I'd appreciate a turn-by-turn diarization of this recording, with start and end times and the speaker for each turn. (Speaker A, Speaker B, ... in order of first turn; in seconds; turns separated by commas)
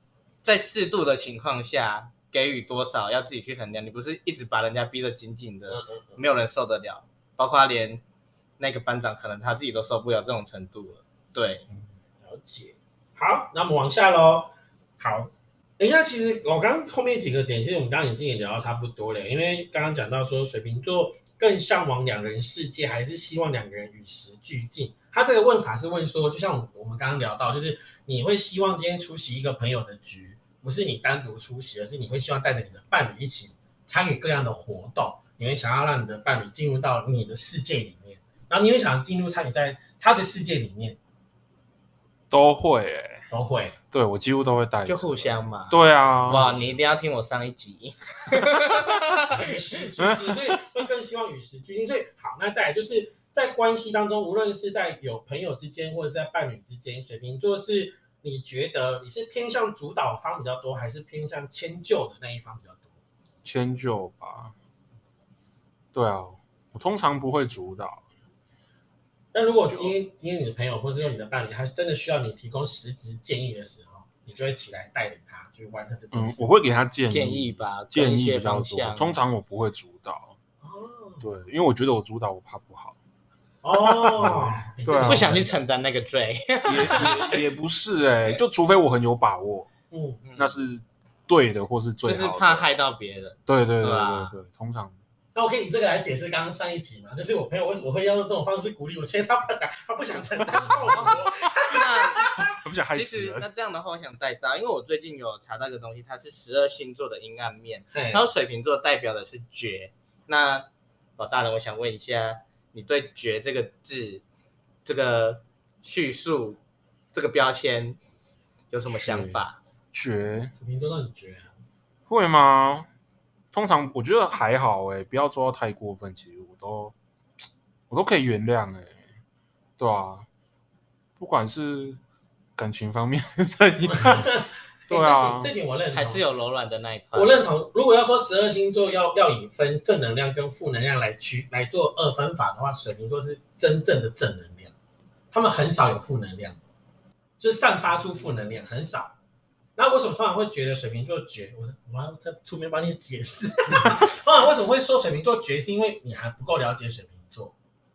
Speaker A: 0.4-8.0, Speaker B: 5.7-6.2, Speaker A: 8.6-11.6, Speaker B: 12.2-41.0, Speaker C: 42.3-43.3, Speaker B: 43.3-43.8, Speaker C: 43.9-46.5, Speaker A: 44.8-49.4, Speaker B: 46.0-46.8, Speaker B: 49.3-62.9, Speaker C: 50.0-50.6, Speaker C: 63.4-64.5, Speaker C: 65.9-68.0, Speaker B: 69.3-76.5, Speaker C: 69.7-69.9, Speaker C: 76.1-80.3, Speaker A: 77.1-79.2, Speaker B: 80.6-81.2, Speaker C: 81.2-83.0, Speaker B: 83.6-85.6, Speaker C: 83.7-85.4, Speaker A: 85.0-87.4, Speaker C: 86.7-89.7, Speaker B: 89.9-90.2, Speaker A: 90.2-90.5, Speaker C: 90.4-92.7, Speaker A: 92.0-94.3, Speaker C: 93.5-94.9, Speaker B: 95.3-102.4, Speaker C: 100.5-103.5, Speaker A: 101.6-102.3, Speaker A: 102.9-110.7, Speaker B: 107.9-108.3, Speaker A: 111.2-114.2, Speaker A: 114.8-116.6, Speaker A: 117.1-118.0, Speaker A: 118.7-119.6, Speaker C: 118.9-120.5, Speaker B: 120.5-121.5, Speaker C: 122.1-122.9, Speaker C: 123.5-126.9, Speaker C: 127.9-129.0, Speaker C: 129.8-130.3, Speaker C: 131.2-132.0, Speaker C: 132.6-135.5, Speaker B: 133.9-136.2, Speaker A: 135.9-137.4, Speaker B: 137.1-144.7, Speaker B: 145.3-146.6, Speaker B: 147.4-149.1, Speaker B: 149.8-157.5